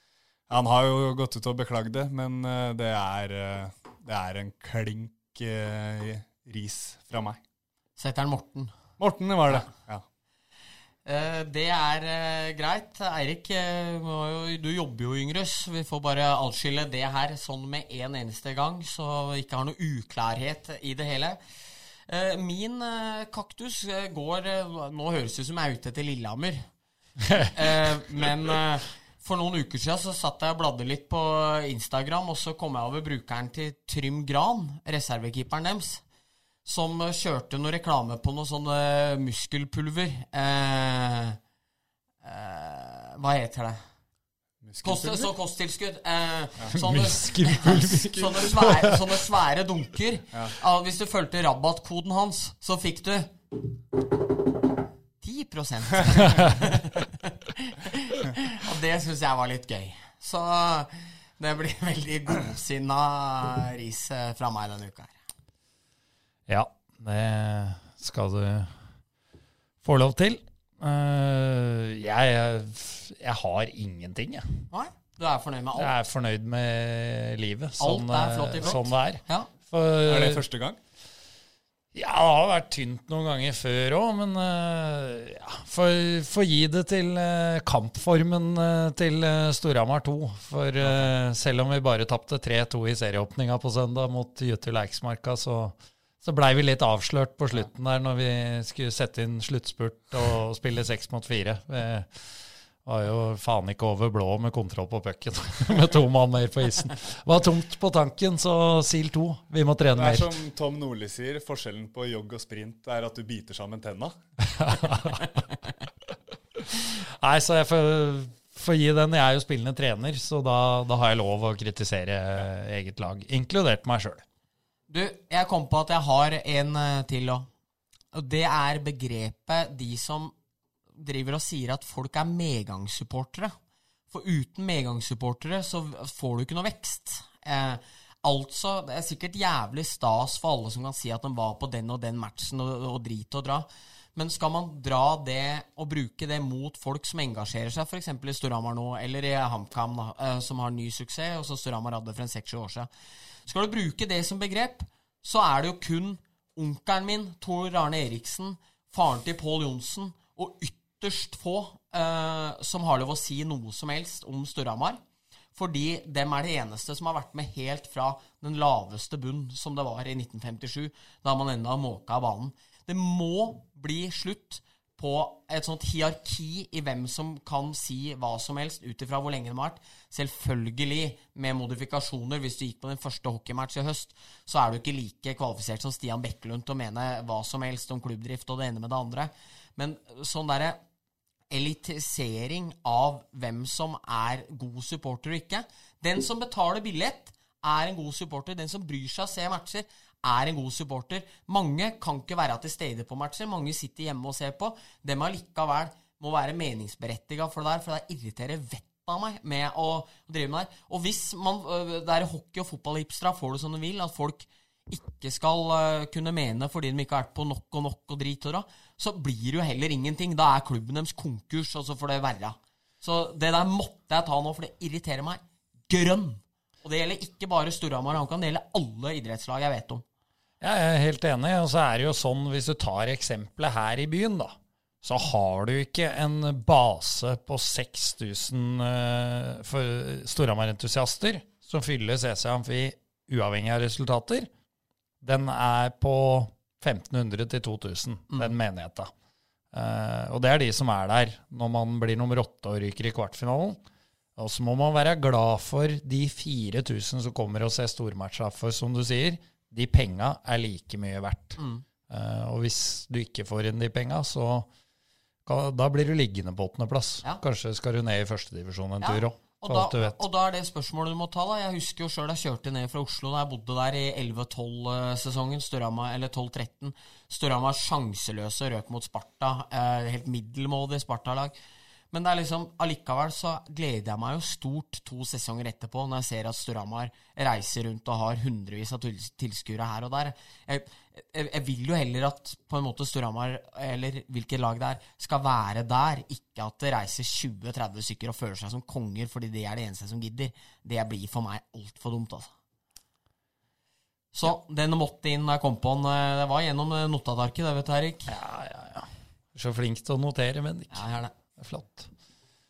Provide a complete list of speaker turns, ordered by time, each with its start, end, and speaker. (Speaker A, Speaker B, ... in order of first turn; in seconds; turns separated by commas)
Speaker A: 0.5-7.4, Speaker B: 8.0-8.7, Speaker A: 9.0-10.0, Speaker B: 11.0-21.4, Speaker B: 22.1-26.7, Speaker B: 27.5-36.0, Speaker B: 36.6-41.4, Speaker B: 42.2-43.8, Speaker A: 44.6-45.3, Speaker B: 44.8-53.3, Speaker C: 46.7-49.0, Speaker B: 55.2-65.1, Speaker C: 66.5-68.7, Speaker C: 69.8-74.7, Speaker B: 74.7-75.9, Speaker C: 75.8-80.4, Speaker B: 77.8-79.5, Speaker A: 80.0-80.8, Speaker C: 81.9-102.2, Speaker A: 90.8-91.1, Speaker C: 102.8-110.3, Speaker A: 110.0-114.1, Speaker C: 114.5-115.2, Speaker C: 116.5-124.2, Speaker B: 124.9-127.5, Speaker B: 128.1-130.3, Speaker B: 131.0-133.5, Speaker B: 134.1-152.9, Speaker B: 153.4-165.0, Speaker B: 165.5-190.8, Speaker B: 191.5-230.0, Speaker C: 230.6-244.5, Speaker C: 245.2-249.1, Speaker C: 249.7-253.8, Speaker C: 254.3-264.7, Speaker B: 261.6-261.8, Speaker C: 265.4-270.2, Speaker B: 269.0-281.6, Speaker B: 282.1-302.5, Speaker B: 304.3-308.3, Speaker C: 308.3-311.0, Speaker B: 310.9-311.3, Speaker C: 311.6-312.1